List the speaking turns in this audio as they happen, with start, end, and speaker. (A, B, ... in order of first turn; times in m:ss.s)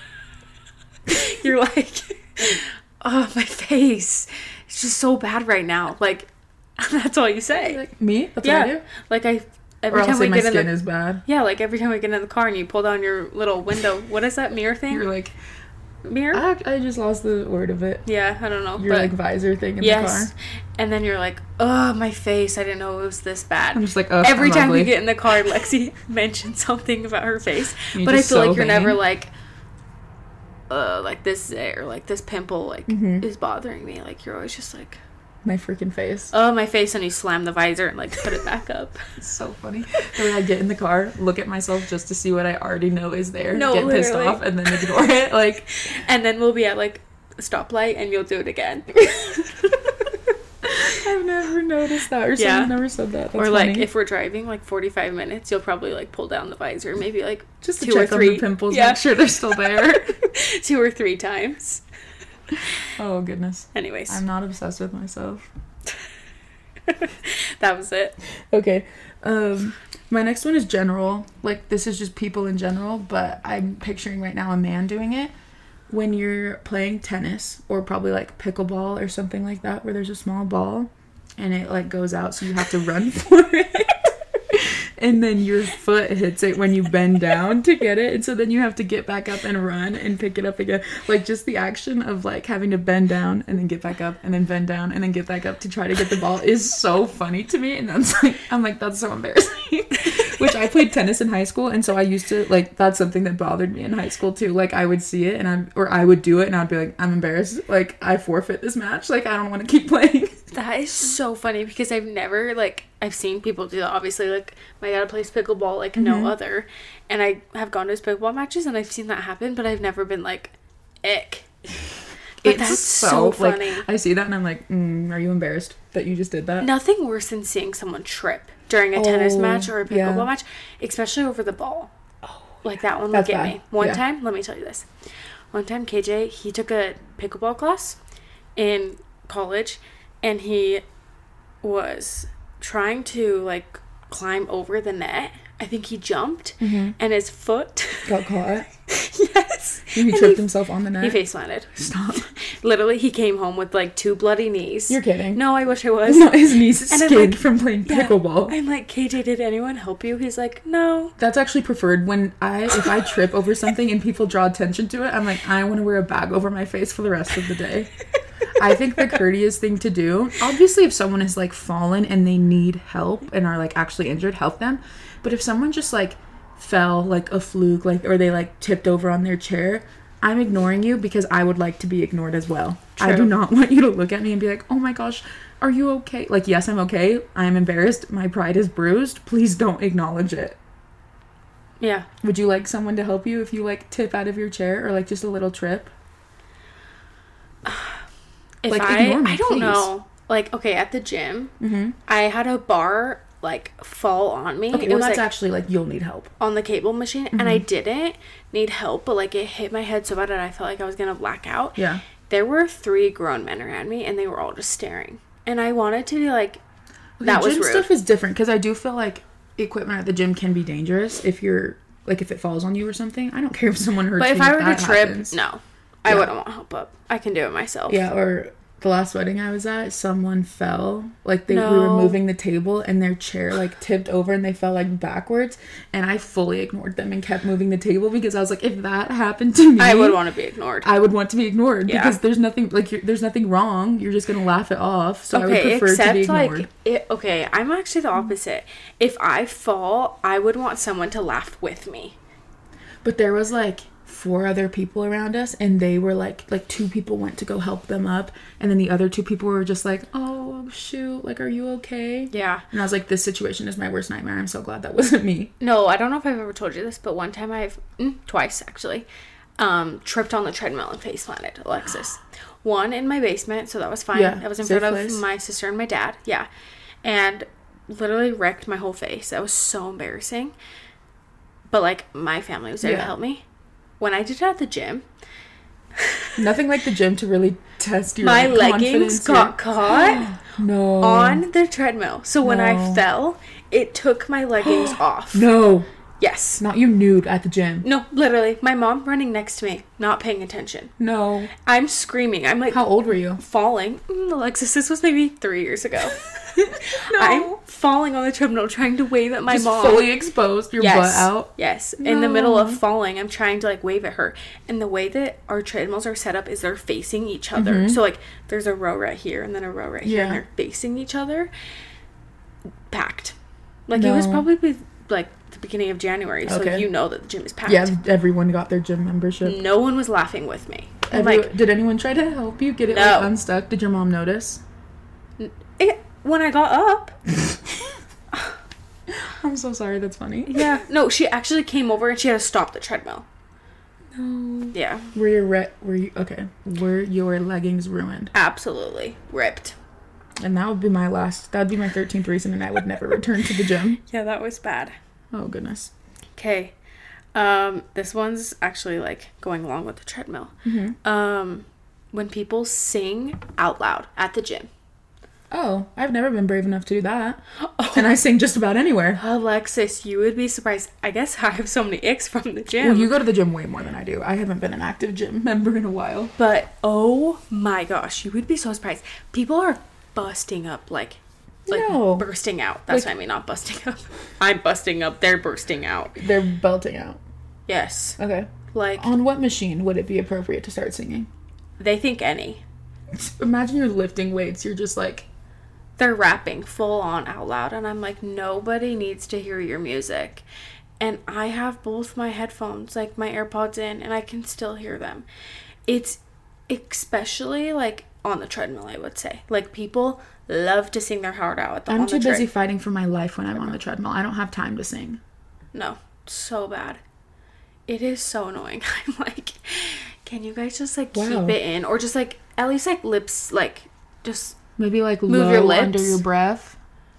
0:01.1-0:07.8 A
0:07.6-0:08.8 B
0:08.4-0:10.7 A
0:09.9-0:11.2 B
0:11.2-0:15.0 A
0:14.9-0:15.3 B
0:16.0-0:16.4 A
0:16.3-0:18.0 B
0:18.0-0:19.1 A
0:18.8-0:20.3 B
0:19.8-0:29.3 A
0:23.7-0:24.9 B
0:27.9-0:29.0 B
0:30.7-0:35.0 A
0:32.9-0:33.2 B
0:35.4-0:36.3 B
0:36.3-0:39.1 A
0:39.2-0:45.7 B
0:43.5-0:45.0 A
0:45.7-0:49.9 A
0:50.6-0:53.9 B
0:52.4-0:52.7 A
0:53.3-1:01.8 A
0:57.6-1:00.1 B
1:03.0-1:05.5 B
1:03.7-1:04.2 A
1:06.9-1:08.2 A
1:08.5-1:15.3 B
1:15.9-1:50.4 B
1:50.5-2:01.5 A
1:56.0-1:56.3 B
2:02.4-2:03.8 A
2:02.4-2:06.7 B
2:06.6-2:11.9 A
2:08.9-2:10.3 B
2:12.6-2:14.9 A
2:13.1-2:14.0 B
2:15.5-2:18.0 A
2:18.6-2:20.8 A
2:21.6-2:28.2 A
2:26.6-2:27.0 B
2:28.0-2:28.7 B
2:28.9-2:30.4 A
2:29.9-2:31.2 B
2:31.0-2:31.7 A
2:31.7-2:32.3 B
2:32.3-2:41.1 A
2:34.9-2:35.4 B
2:36.0-2:38.6 B
2:41.2-2:47.9 B
2:48.5-3:10.6 B
3:03.0-3:03.3 A
3:11.8-3:12.1 A
3:12.2-3:15.9 B
3:17.6-3:18.0 A
3:18.6-3:21.5 A
3:18.7-3:19.9 B
3:21.6-3:22.0 B
3:22.1-3:25.2 A
3:24.7-3:26.3 B
3:26.4-3:36.6 A
3:27.3-3:27.6 B
3:31.8-3:32.0 B
3:37.2-3:45.4 B
3:37.2-3:37.9 A
3:44.2-3:48.0 A
3:47.9-4:00.2 B
3:51.5-3:52.2 A
3:59.8-4:00.9 A
4:00.8-4:06.7 B
4:01.8-4:02.2 A
4:05.3-4:12.2 A
4:13.0-4:25.5 B
4:22.3-4:22.6 A
4:25.6-4:29.1 A
4:29.6-4:36.5 A
4:34.1-4:35.2 B
4:37.0-4:40.5 A
4:41.7-4:43.4 A
4:42.8-4:43.1 B
4:44.0-4:45.0 A
4:46.0-4:46.3 A
4:46.4-4:51.4 B
4:48.2-4:50.3 A
4:51.0-4:55.5 A
4:52.4-4:53.0 B
4:54.6-4:55.9 B
4:56.2-4:56.6 A
4:56.6-4:57.8 B
4:57.8-5:00.9 A
5:01.0-5:01.5 B
5:01.6-5:10.1 A
5:02.7-5:03.4 B
5:06.6-5:07.6 B
5:09.5-5:12.8 B
5:10.8-5:21.5 A
5:17.5-5:18.0 B
5:20.0-5:20.4 B
5:22.9-5:23.3 A
5:23.9-5:27.9 A
5:23.9-5:24.4 B
5:26.4-5:26.8 B
5:27.6-5:29.6 B
5:29.4-5:31.5 A
5:31.1-5:34.6 B
5:32.8-5:33.3 A
5:35.4-5:37.2 A
5:39.1-5:40.6 B
5:40.4-5:43.2 A
5:44.1-5:48.3 B
5:44.7-5:45.1 A
5:48.3-5:49.8 A
5:50.4-5:54.0 B
5:54.1-5:54.9 A
5:55.3-5:55.9 B
5:56.4-5:56.7 A
5:57.3-6:00.5 A
6:00.6-6:01.0 B
6:01.0-6:04.7 A
6:05.5-6:07.4 B
6:07.8-6:08.1 A
6:07.9-6:09.2 B
6:09.2-6:13.1 A
6:12.8-6:16.3 B
6:16.4-6:26.2 A
6:21.7-6:22.3 B
6:26.2-6:27.2 B
6:27.7-6:28.2 A
6:28.2-6:31.3 B
6:28.7-6:29.1 A
6:31.8-6:32.6 A
6:33.1-6:35.3 B
6:36.0-6:40.4 A
6:41.0-6:45.2 A
6:45.9-6:52.5 A
6:51.9-6:55.2 B
6:55.7-6:57.0 A
6:57.9-7:04.6 A
7:01.1-7:01.6 B
7:04.8-7:06.8 B
7:05.3-7:06.2 A